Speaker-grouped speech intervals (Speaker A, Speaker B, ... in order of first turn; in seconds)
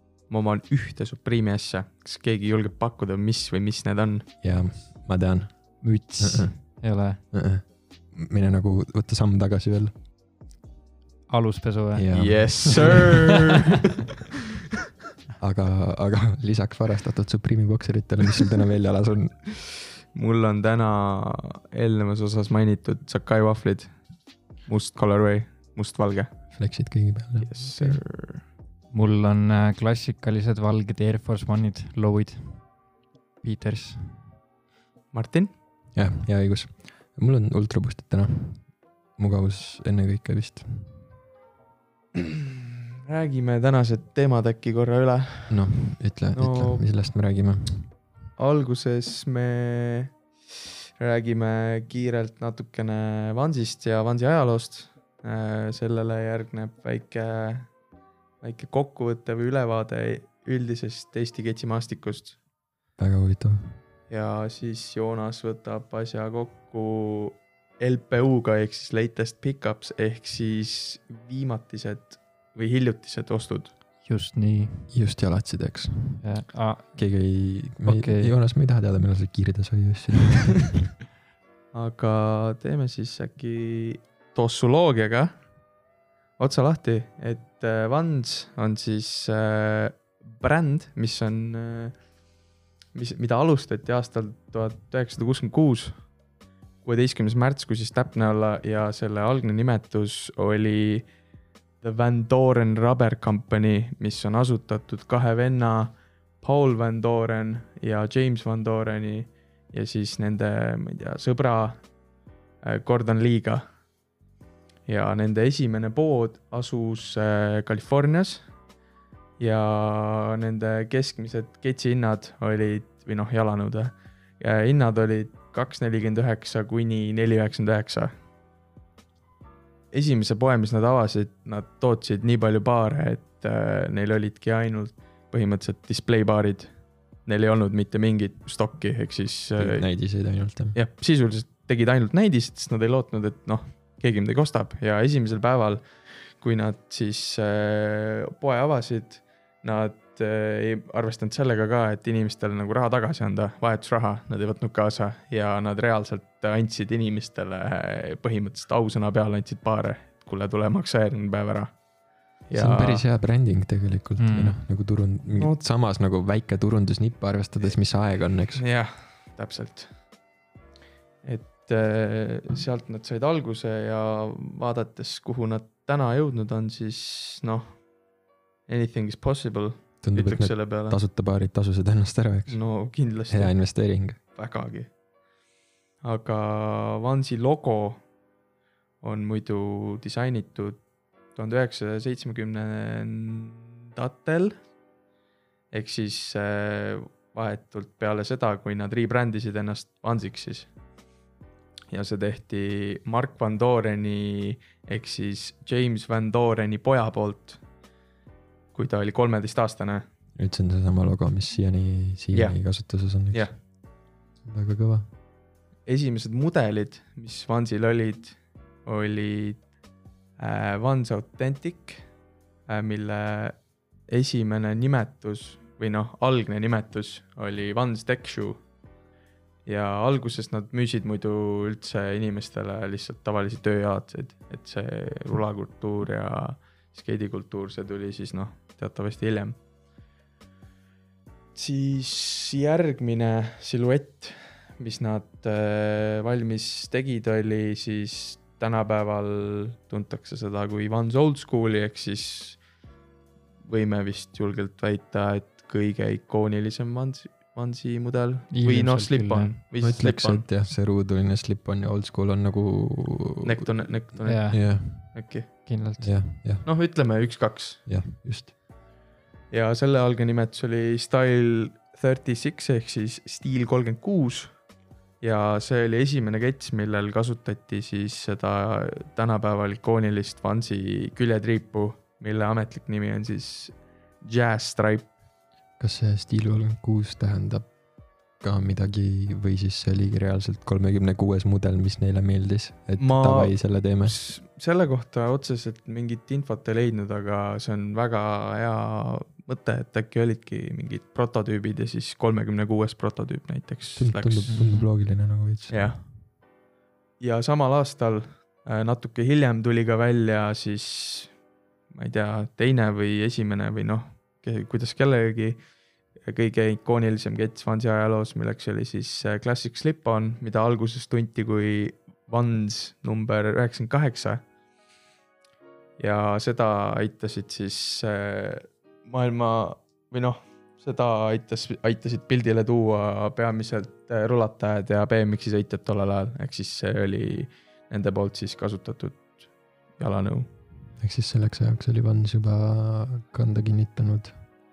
Speaker A: 0.3-4.3, 12.1-13.8, 20.1-23.9, 24.7-26.3, 27.4-28.4, 35.1-35.5, 43.1-45.7, 46.3-46.8, 48.4-50.1, 51.0-57.7, 58.4-62.4, 64.1-73.7, 81.7-85.4, 86.4-91.9, 92.9-95.9, 96.8-101.1, 101.8-111.8, 112.6-113.7, 114.8-118.4, 119.4-128.1, 129.9-136.7, 137.2-139.8, 140.7-161.7, 162.5-163.0, 165.4-165.6, 168.5-169.9, 171.2-177.8, 178.7-181.0, 182.5-183.5, 184.3-184.9, 186.0-188.0, 189.0-190.8, 191.3-194.5, 195.7-200.7, 201.9-207.6, 208.7-210.1, 212.3-213.6, 215.8-219.6, 220.4-222.1, 222.7-228.6, 229.7-239.6, 241.5-252.6, 253.7-260.5, 263.4-265.5, 266.6-267.8, 269.5-274.6, 275.2-285.1, 293.0-304.7, 305.7-306.0, 307.2-311.3, 311.9-315.6, 316.2-324.4, 326.0-340.5
Speaker B: 4.4-6.5, 7.3-9.9, 11.9-13.1, 15.4-19.4, 26.5-28.0, 35.9-40.9, 45.5-47.9, 63.0-63.8, 74.9-76.2, 76.9-80.8, 139.6-140.8, 162.5-168.6, 180.0-182.6, 183.3-184.2, 210.3-213.5, 214.4-215.1, 259.8-265.1, 266.0-266.7, 267.9-268.5, 285.8-287.7, 288.4-294.2, 304.0-305.9, 341.0-344.4
Speaker C: 5.8-7.2, 11.3-12.1, 12.7-13.1, 28.9-32.7, 33.4-34.3, 74.0-74.9, 76.2-77.1, 77.8-78.3, 164.2-164.6, 258.5-259.6, 264.2-266.2, 304.5-304.9